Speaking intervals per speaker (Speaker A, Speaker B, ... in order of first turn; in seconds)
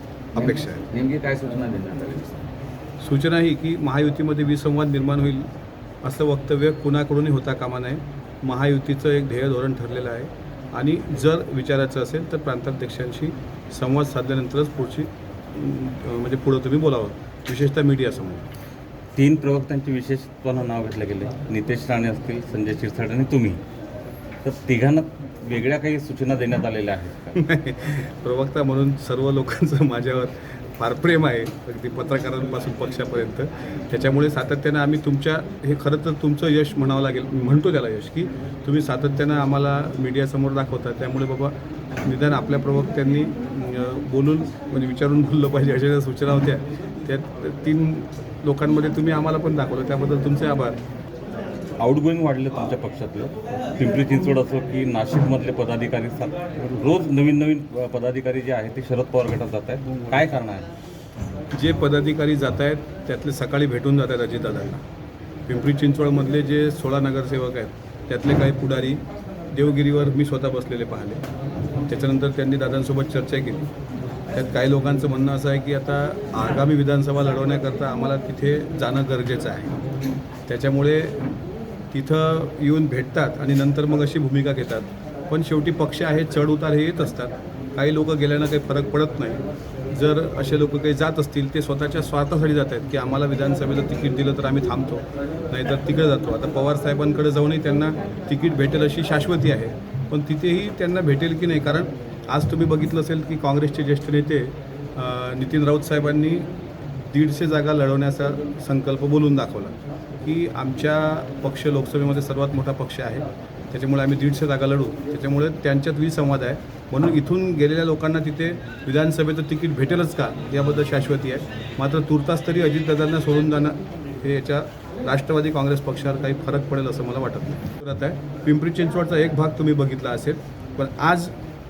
Speaker A: 0.3-0.8, 3.0-5.5, 6.0-18.5, 27.4-50.8, 61.5-64.8, 65.5-71.2, 71.9-73.7, 74.3-79.7, 80.5-81.2, 81.9-106.5, 107.1-131.3
Speaker B: 0.3-2.5
Speaker C: 19.1-23.6, 24.4-27.4, 51.8-60.7